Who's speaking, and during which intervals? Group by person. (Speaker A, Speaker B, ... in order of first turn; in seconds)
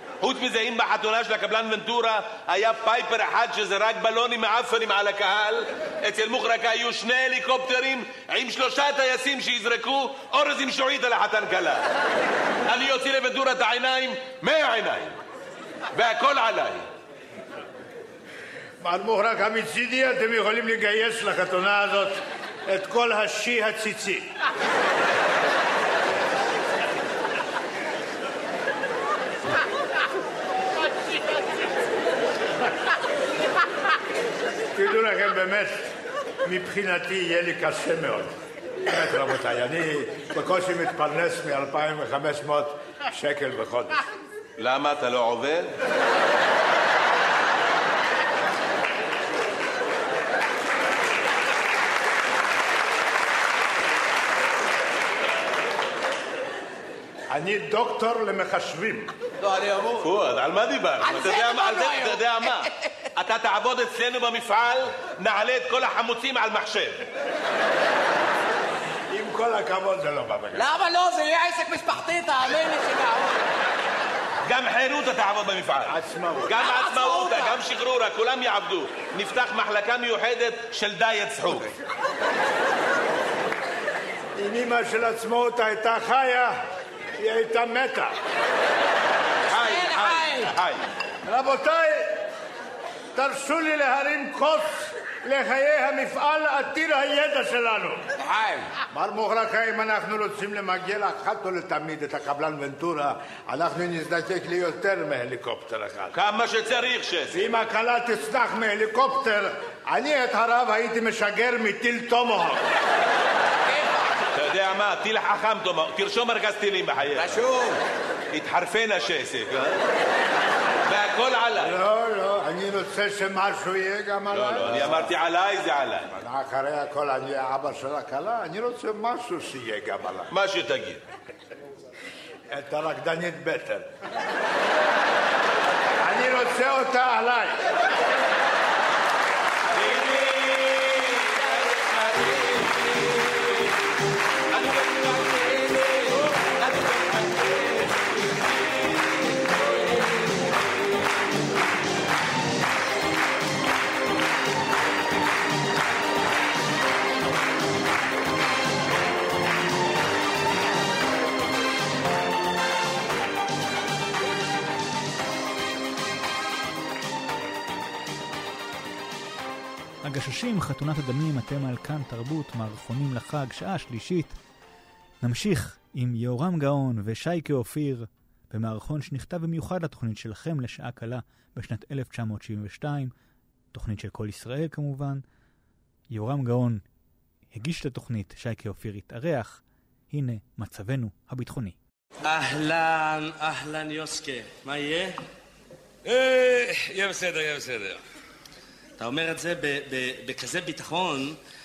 Speaker A: 0.2-11.9, 12.7-15.2, 15.9-16.9, 44.6-45.7, 60.0-67.0, 74.5-76.0, 76.5-81.7, 89.5-90.8, 106.1-107.6, 114.3-117.4, 118.3-119.8, 120.9-121.7, 124.3-126.1, 130.3-131.0
Speaker B: 18.8-24.3, 34.8-35.9, 36.4-38.3, 38.9-44.0, 57.3-59.1, 69.1-70.7, 75.9-76.6, 84.4-86.6, 87.2-88.1, 91.2-92.2, 93.2-98.0, 98.9-106.1, 107.3-112.7, 121.6-125.1, 126.1-130.3, 132.5-133.9, 136.0-137.6
Speaker C: 59.4-60.1, 61.0-62.7, 70.5-73.4, 76.6-77.6, 89.5-90.5, 98.2-98.7, 113.7-114.1, 117.2-117.8, 140.0-140.3, 141.2-142.8, 144.7-146.2, 146.8-147.6
Speaker D: 170.0-174.4, 175.2-183.1, 183.7-185.2, 186.1-186.8, 187.5-191.8
Speaker E: 192.2-195.2, 199.0-201.4
Speaker F: 196.1-198.0